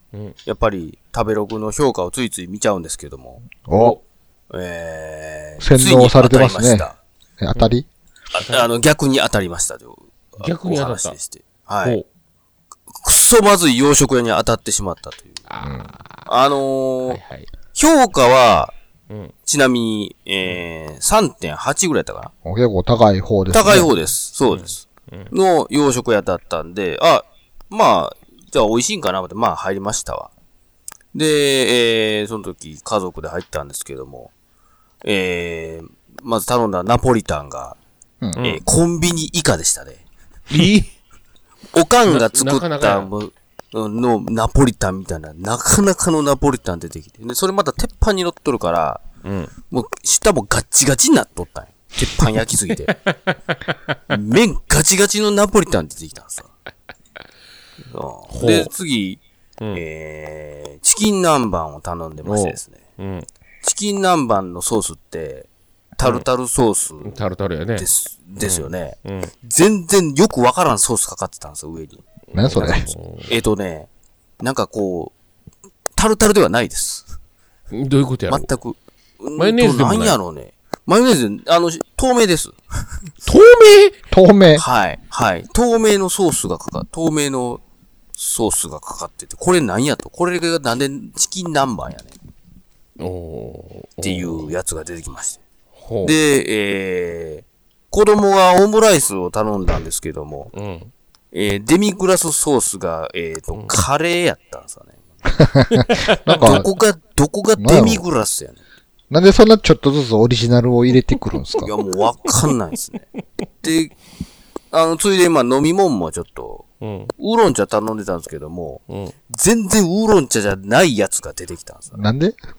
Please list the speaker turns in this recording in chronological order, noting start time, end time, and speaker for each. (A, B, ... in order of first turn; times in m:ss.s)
0:00.4-0:03.9 A
0:03.7-0:04.0 B
0:04.5-0:07.0 A
0:05.6-0:06.9 B
0:07.4-0:07.9 B
0:08.3-0:12.0 A
0:08.4-0:08.7 C
0:10.4-0:11.2 C
0:12.9-0:15.4 A
0:15.5-0:16.3 C
0:15.6-0:15.9 B
0:16.3-0:17.2 A
0:17.1-0:17.5 C
0:17.7-0:18.7 A
0:19.5-0:22.3 A
0:22.4-0:23.9 B
0:23.5-0:30.3 A
0:24.5-0:25.3 C
0:31.1-0:34.3 A
0:35.0-0:37.8 A
0:38.4-0:38.6 C
0:38.4-0:40.0 A
0:40.5-0:40.9 C
0:41.7-0:49.0 A
0:42.1-0:43.1 C
0:49.2-0:49.5 C
0:49.7-0:52.9 A
0:52.9-0:53.4 C
0:54.1-0:56.5 A
0:57.9-0:59.2 A
0:58.3-0:58.7 C
0:59.7-1:02.8 A
1:02.3-1:03.3 C
1:03.6-1:07.2 A
1:07.0-1:07.9 C
1:07.8-1:13.9 A
1:08.4-1:09.3 C
1:12.3-1:13.3 C
1:12.3-1:12.9 B
1:14.4-1:15.1 A
1:16.0-1:17.1 A
1:17.7-1:18.5 C
1:18.3-1:22.6 A
1:19.4-1:20.2 C
1:23.3-1:24.0 C
1:24.1-1:24.6 B
1:24.6-1:27.6 A
1:28.2-1:32.2 A
1:33.0-1:34.5 C
1:34.0-1:35.4 A
1:35.8-1:36.2 C
1:36.0-1:40.5 A
1:40.5-1:40.9 C
1:41.3-1:45.0 A
1:43.5-1:43.8 C
1:45.4-1:46.7 B
1:45.7-1:46.7 C
1:46.4-1:48.6 A
1:47.6-1:48.0 B
1:49.1-1:51.7 B
1:51.6-1:53.1 A
1:53.6-1:53.9 A
1:54.7-1:56.7 A
1:56.8-1:57.1 C
1:57.2-2:02.0 A
2:02.0-2:02.4 B